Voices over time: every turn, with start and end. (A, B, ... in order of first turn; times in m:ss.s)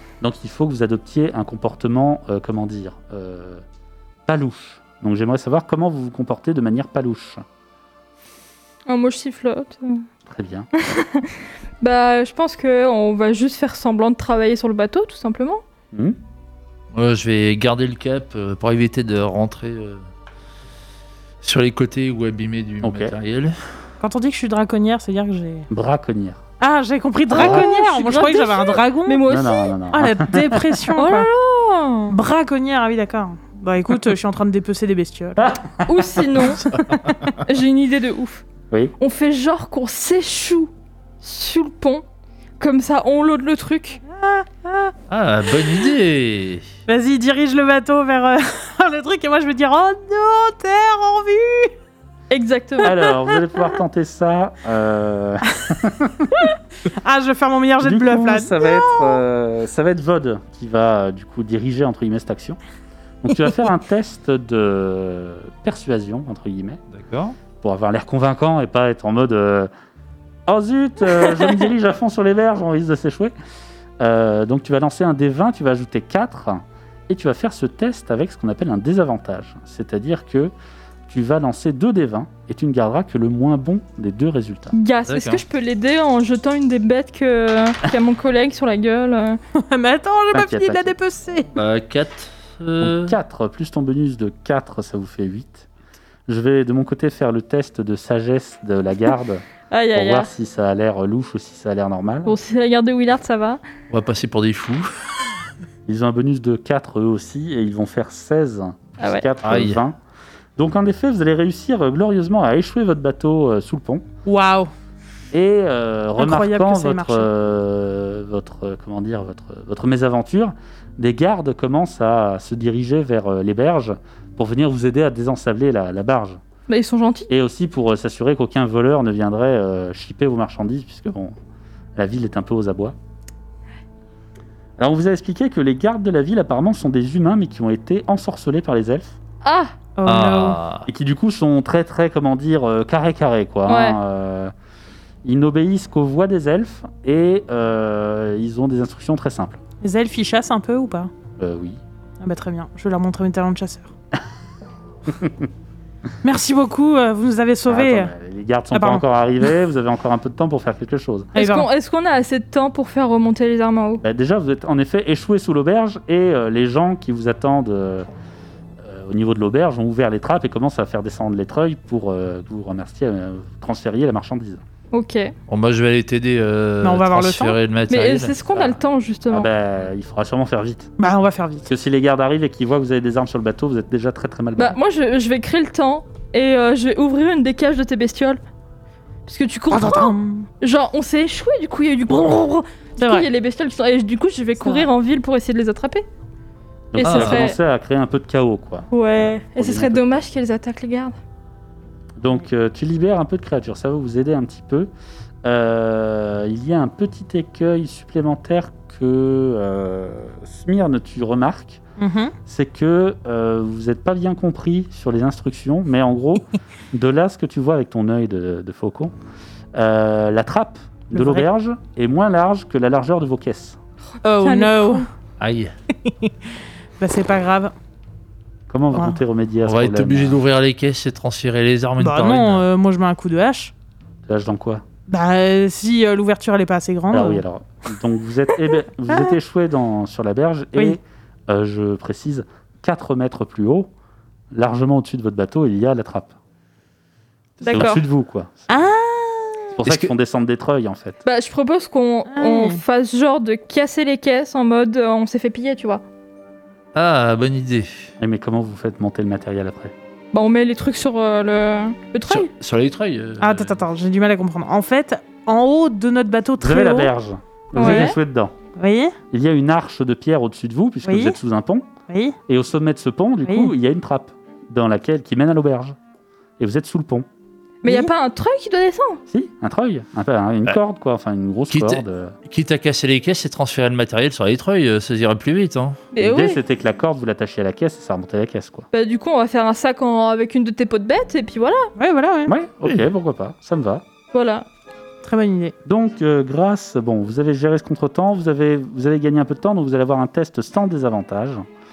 0:00.2-0:03.6 A
0:04.2-0:07.4 A
0:08.9-0:10.0 B
0:10.2-0:10.7 A
0:10.8-0:15.6 B
0:15.9-0:16.2 A
0:16.9-0:20.0 C
0:21.4-0:23.6 C
0:22.8-0:23.2 A
0:24.0-0:25.7 D
0:25.7-0:26.4 A
0:26.6-0:29.3 D
0:27.3-0:29.7 B
0:27.3-0:27.6 A
0:29.3-0:30.8 A
0:29.9-0:31.3 D
0:31.0-0:32.1 B
0:32.1-0:35.5 D
0:35.4-0:36.2 A
0:35.8-0:36.6 B
0:36.7-0:37.2 D
0:37.4-0:38.4 B
0:39.0-0:40.7 B
0:41.2-0:42.0 B
0:42.6-0:44.0 B
0:44.1-0:44.9 D
0:45.1-0:46.6 C
0:46.9-0:51.7 D
0:52.3-0:53.0 B
0:52.8-0:56.3 A
0:56.8-0:59.2 D
0:57.8-1:02.6 A
1:03.2-1:06.8 A
1:06.9-1:07.4 C
1:07.6-1:09.7 A
1:10.5-1:13.3 A
1:14.0-1:20.5 A
1:21.1-1:24.7 A
1:24.7-1:29.4 B
1:25.1-1:25.4 C
1:29.6-1:31.5 D
1:30.3-1:30.9 A
1:31.5-1:33.2 C
1:32.8-1:35.7 A
1:36.3-1:42.4 A
1:39.7-1:40.3 B
1:42.2-1:43.6 B
1:43.9-1:45.1 C
1:45.8-1:50.0 A
1:49.0-1:49.2 B
1:49.4-1:49.8 C
1:50.6-1:54.1 A
1:54.2-1:54.7 D
1:55.3-2:06.4 A
1:56.2-1:57.3 D
2:06.7-2:07.3 B
2:07.3-2:11.4 A
2:12.0-2:12.9 A
2:14.8-2:19.2 A
2:19.4-2:19.7 B
2:20.0-2:20.6 D
2:20.0-2:20.9 C
2:20.8-2:24.5 A
2:23.7-2:24.0 B
2:25.2-2:29.6 A
2:29.8-2:31.1 D
2:31.4-2:31.8 A
2:32.2-2:33.9 D
2:35.1-2:35.5 A
2:36.2-2:38.1 D
2:37.7-2:41.3 A
2:38.7-2:39.0 D
2:41.3-2:44.0 B
2:41.4-2:41.7 D
2:44.0-2:48.1 A
2:48.8-2:54.6 A
2:54.9-2:55.3 B
2:55.5-2:58.4 C
2:56.8-2:57.6 D
2:57.9-2:59.5 B
2:58.5-3:00.9 A
3:01.0-3:01.7 D
3:01.6-3:04.8 A
3:04.6-3:08.4 B
3:09.2-3:16.0 B
3:09.7-3:10.5 D
3:13.0-3:13.3 D
3:14.6-3:14.9 D
3:16.9-3:18.9 A
3:16.9-3:17.6 B
3:17.0-3:17.5 C
3:18.9-3:21.1 B
3:19.5-3:20.2 A
3:22.2-3:24.9 A
3:25.4-3:31.8 A
3:32.0-3:32.3 D
3:32.4-3:39.1 A
3:39.7-3:43.8 A
3:41.1-3:41.4 D
3:44.2-3:45.1 D
3:44.4-3:45.1 B
3:45.4-3:45.7 C
3:46.0-3:47.7 D
3:48.7-3:50.4 A
3:49.6-3:52.6 C
3:52.0-3:53.7 D
3:54.2-3:54.8 A
3:55.1-3:57.4 D
3:57.1-4:03.9 A
3:59.1-3:59.4 D
4:04.5-4:06.3 A
4:07.6-4:08.0 B
4:07.6-4:08.7 A
4:08.7-4:09.7 D
4:09.7-4:11.2 A
4:11.2-4:16.0 B
4:12.3-4:12.8 D
4:16.9-4:18.1 C
4:18.2-4:19.9 A
4:20.3-4:22.5 B
4:22.3-4:23.8 C
4:23.4-4:27.1 D
4:26.6-4:28.5 A
4:27.8-4:28.1 D
4:27.8-4:28.2 B
4:28.8-4:29.2 D
4:29.3-4:31.9 A
4:31.0-4:31.4 D
4:32.1-4:32.4 D
4:32.5-4:36.0 A
4:33.4-4:33.7 D
4:36.6-4:37.2 A
4:37.8-4:39.2 B
4:37.8-4:38.1 D
4:39.3-4:42.3 A
4:41.7-4:46.0 C
4:46.1-4:46.6 B
4:46.2-4:48.9 A
4:48.9-4:51.9 B
4:52.0-4:52.5 D
4:52.4-4:54.0 A
4:54.3-4:54.6 B
4:55.2-4:55.7 D
4:55.8-5:01.6 A